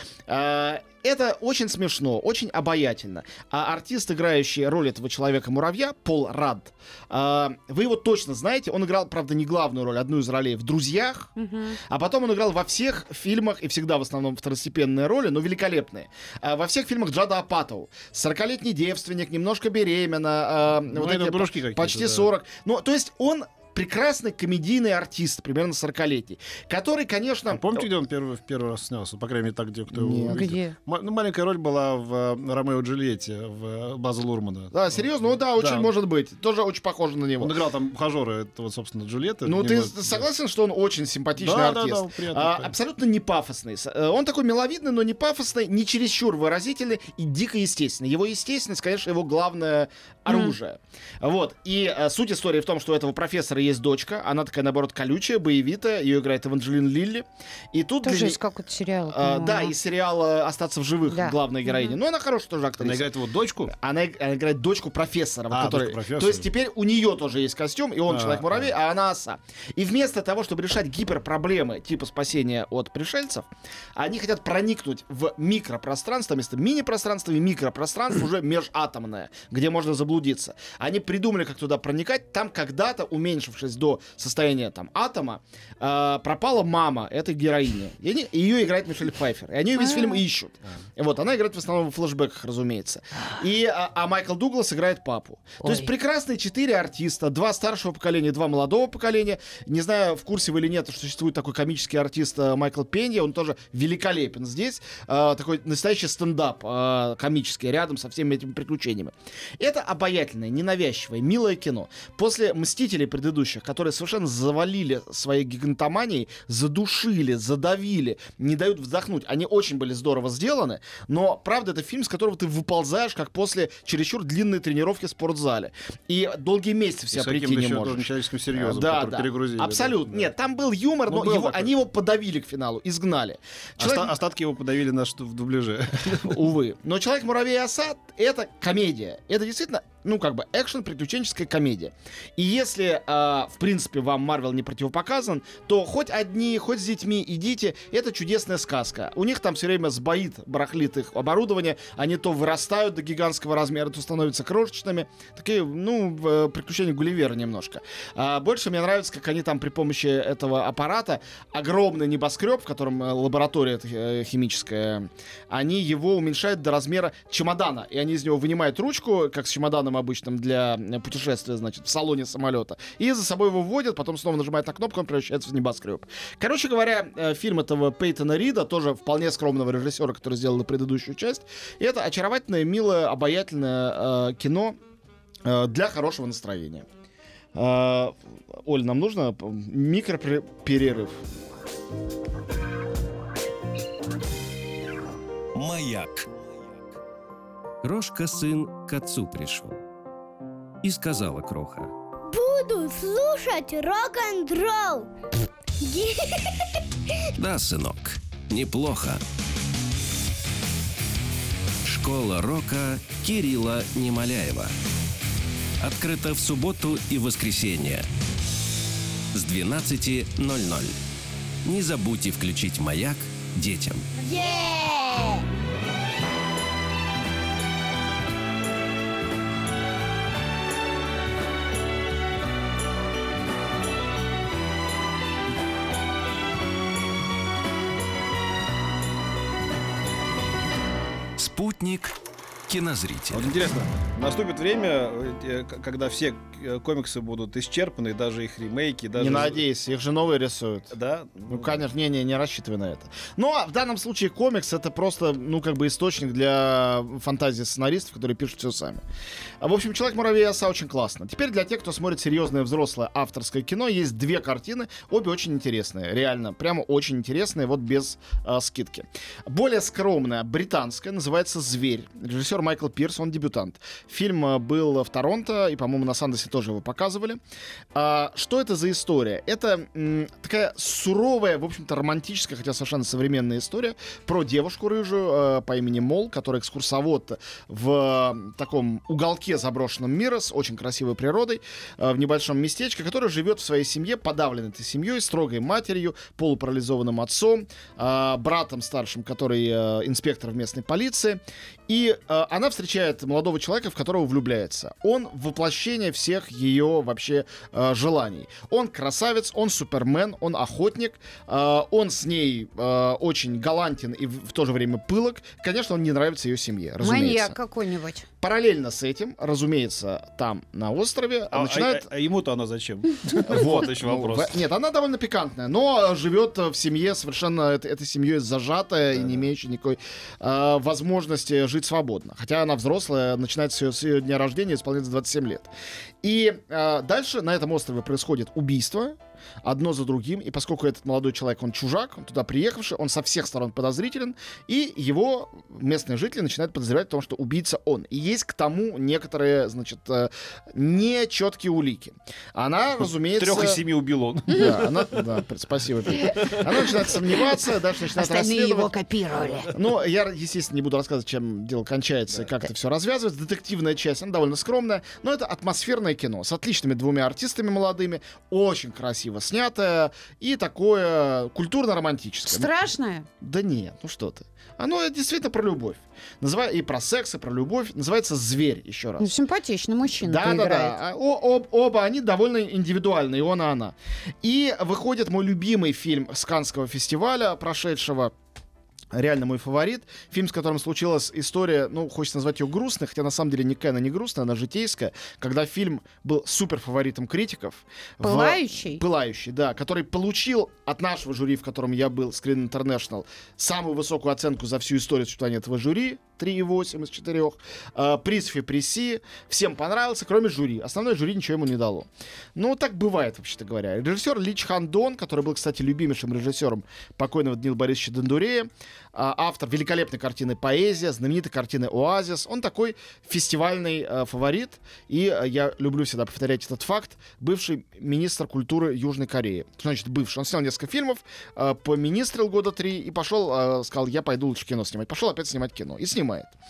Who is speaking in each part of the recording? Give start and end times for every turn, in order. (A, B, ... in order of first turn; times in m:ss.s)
0:00.3-0:11.3 A
0:11.4-0:11.8 B
0:11.9-0:27.9 A
0:20.9-0:22.3 C
0:27.5-0:35.9 C
0:29.9-0:30.5 A
0:30.3-0:30.8 B
0:34.7-0:37.6 A
0:37.4-0:40.3 C
0:39.4-0:58.4 A
0:41.4-0:42.8 C
0:50.3-0:50.6 B
0:58.0-0:59.8 B
0:59.1-1:03.1 A
1:01.1-1:02.0 B
1:02.8-1:03.7 C
1:03.7-2:14.1 A
1:05.5-1:06.5 C
1:08.1-1:08.7 C
1:29.9-1:30.2 B
2:07.1-2:10.3 C
2:11.1-2:11.7 C
2:13.8-2:16.5 C
2:16.2-3:04.8 A
3:05.5-3:06.9 A
3:07.6-3:11.2 A
3:15.6-3:16.2 D
3:17.8-3:19.8 D
3:20.8-3:21.9 D
3:22.3-3:25.1 E
3:25.8-3:26.7 E
3:27.4-3:29.2 D
3:31.8-3:34.7 D
3:35.8-3:38.1 D
3:39.3-3:41.0 D
3:41.6-3:44.1 D
3:44.2-3:45.4 E
4:01.4-4:02.2 D
4:02.7-4:03.5 D
4:03.3-4:09.6 C
4:09.2-4:10.9 A
4:10.9-4:11.8 C
4:11.5-4:19.0 A
4:19.6-4:37.4 A
4:37.9-5:17.6 A
5:17.0-5:18.3 B
5:18.4-5:22.0 A
5:21.5-5:24.6 C
5:23.4-5:35.7 A
5:29.1-5:29.5 C
5:36.2-5:53.8 A
5:53.0-5:55.3 C
5:54.5-5:58.9 A
5:56.2-5:57.4 C
5:58.2-5:59.7 B
5:59.7-6:12.7 A
6:12.5-6:13.3 B
6:13.4-6:19.4 A
6:19.2-6:21.0 B
6:20.2-6:28.3 A
6:29.1-7:16.5 A
6:38.2-6:39.0 B